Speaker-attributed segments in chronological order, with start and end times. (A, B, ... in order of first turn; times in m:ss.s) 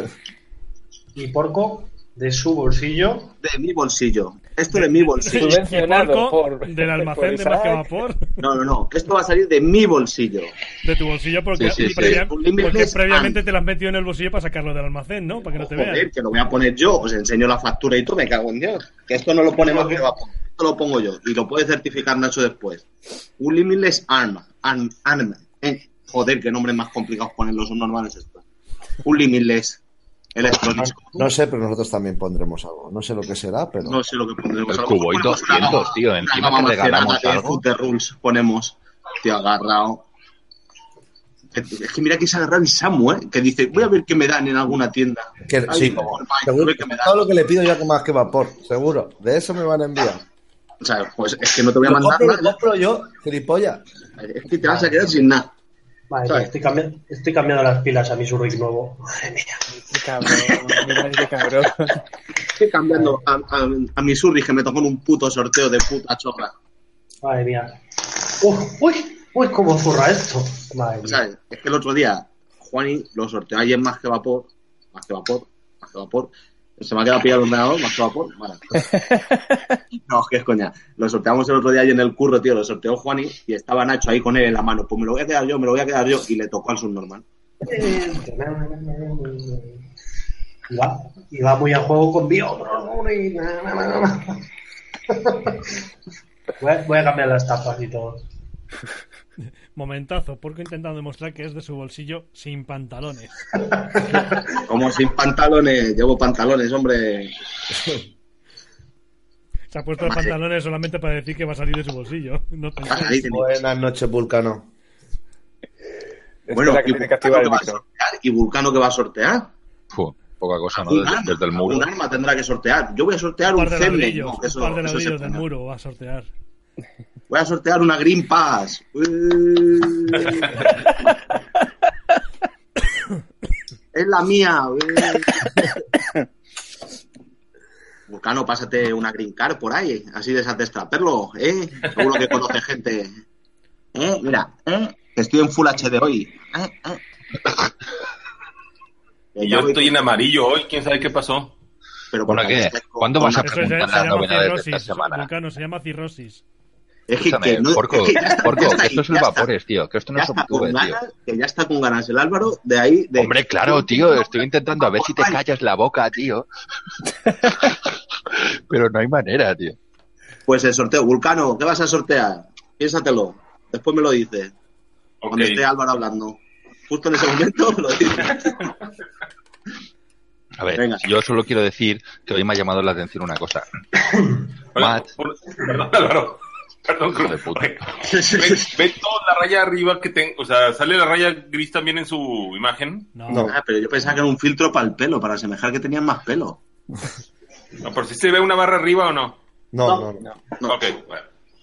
0:01.1-0:03.3 A
0:03.4-0:05.6 B
0:04.8-0:08.4 C
0:05.3-0:07.9 D
0:08.4-0:10.6 B
0:10.8-0:16.1 C
0:11.6-0:12.2 E
0:11.8-0:13.4 B
0:15.6-0:22.8 B
0:19.6-0:20.0 A
0:23.4-0:28.4 B
0:29.0-0:29.8 B
0:30.3-0:31.2 B
0:30.4-0:34.0 F
0:33.8-0:40.0 B
0:34.7-0:37.6 E
0:41.5-0:47.2 B
0:45.4-0:50.2 F
0:50.8-0:52.5 B
0:51.8-0:53.8 F
0:54.2-0:55.5 B
0:54.6-0:55.0 A
0:56.1-0:59.7 A
0:59.7-1:02.0 D
1:00.4-1:00.8 B
1:02.5-1:06.5 B
1:07.2-1:07.8 A
1:08.3-1:11.2 A
1:11.0-1:18.6 B
1:19.0-1:19.8 D
1:20.0-1:27.2 B
1:27.6-1:29.8 A
1:30.7-1:34.4 A
1:35.1-1:35.7 A
1:36.6-1:38.2 A
1:39.7-1:43.3 C
1:43.6-1:44.4 A
1:44.6-1:47.3 B
1:47.7-1:48.0 F
1:49.7-1:53.4 C
1:50.0-1:50.4 B
1:52.8-1:53.5 B
1:53.3-1:54.7 F
1:56.5-1:57.8 D
1:56.5-1:59.5 B
1:59.9-2:01.9 E
2:00.7-2:05.4 B
2:03.5-2:06.3 C
2:07.3-2:10.8 B
2:13.9-2:15.6 B
2:18.1-2:23.1 B
2:23.9-2:27.0 B
2:29.3-2:29.9 B
2:29.4-2:31.5 G
2:32.1-2:33.8 B
2:32.3-2:35.3 E
2:33.4-2:36.4 C
2:37.1-2:39.5 B
2:37.2-2:41.0 E
2:40.2-2:45.4 B
2:43.2-2:46.5 E
2:47.4-2:47.8 E
2:48.3-2:49.8 E
2:50.5-2:54.5 B
2:55.2-2:55.6 G
2:55.3-2:58.7 B
3:00.6-3:03.6 E
3:00.8-3:01.0 B
3:04.7-3:13.1 G
3:04.8-3:05.1 E
3:07.2-3:07.8 E
3:08.0-3:08.7 B
3:13.1-3:13.5 C
3:13.3-3:13.5 F
3:13.5-3:16.6 B
3:17.8-3:19.4 G
3:19.7-3:20.2 F
3:19.8-3:20.1 A
3:20.6-3:21.3 G